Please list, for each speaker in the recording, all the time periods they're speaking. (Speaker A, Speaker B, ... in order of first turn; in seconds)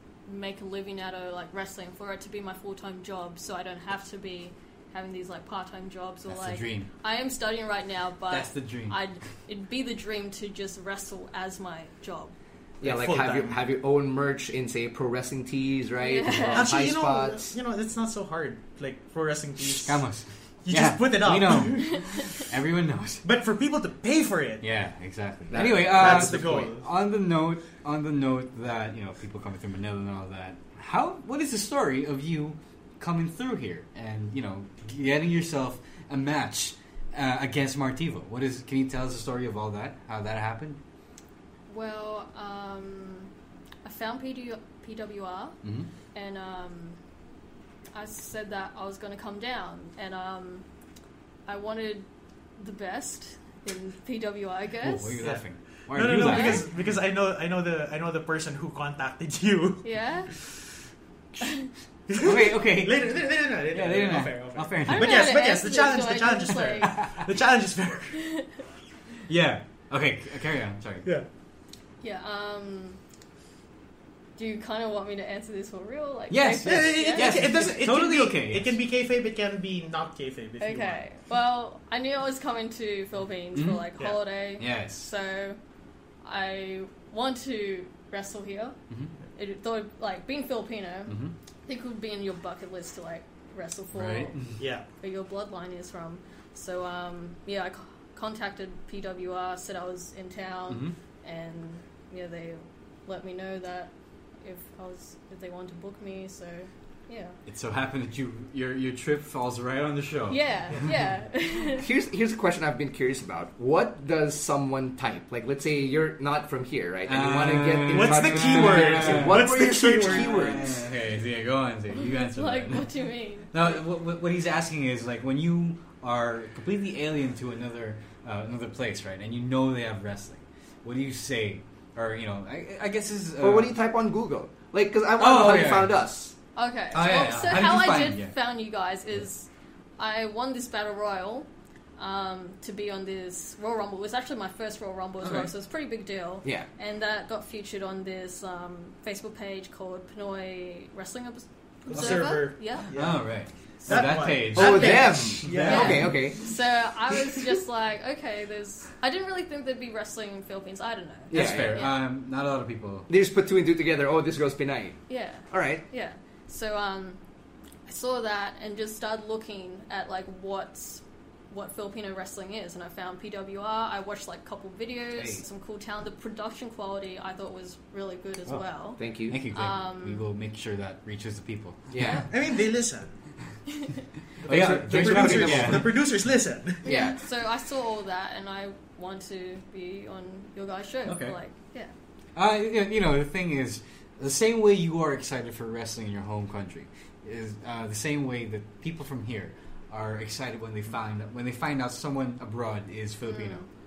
Speaker A: 0.2-12.3, 16.0-16.7, 21.8-22.3, 41.7-43.3, 43.8-45.6, 46.1-47.0, 47.9-50.6, 51.5-52.0, 52.6-55.2, 56.2-56.7, 59.8-60.3, 64.9-67.0, 68.1-68.5, 72.0-73.0, 74.4-77.5, 80.6-85.6, 86.2-88.8, 89.3-94.4, 95.0-103.9, 104.4-107.4, 110.3-111.9, 122.1-123.8, 136.6-139.5, 140.0-152.9, 155.6-162.0, 165.1-167.2, 167.9-179.0, 179.5-180.2, 186.8-191.9, 203.2-203.7
Speaker B: 6.3-6.9, 8.3-9.0, 19.7-23.2, 24.6-40.8, 45.6-45.9, 54.8-56.6, 62.2-65.2, 66.8-67.2, 69.3-71.1, 76.3-78.8, 83.5-83.9, 84.6-85.1, 91.1-91.3, 93.9-94.6, 100.7-100.9, 107.5-110.9, 117.0-119.5, 120.0-122.9, 123.5-133.7, 135.2-135.9, 136.9-138.3, 145.2-145.5, 151.9-152.2, 152.9-156.1, 161.3-163.1, 175.2-175.4, 179.3-182.2, 184.4-185.9, 191.1-191.4, 192.3-203.6
Speaker C: 12.8-17.5, 25.5-26.7, 111.7-120.7, 133.4-136.3, 154.5-156.5, 161.3-161.8, 163.1-165.0, 165.5-165.8, 179.0-179.4, 181.9-182.3, 184.4-186.0, 186.8-187.2
Speaker D: 12.8-13.6, 16.5-20.0, 20.6-22.2, 23.2-24.6, 25.6-26.9, 55.2-59.8, 62.1-68.2, 76.6-81.0, 94.6-94.8, 117.9-120.7, 151.9-153.2, 153.9-156.1, 182.3-183.1, 184.6-186.8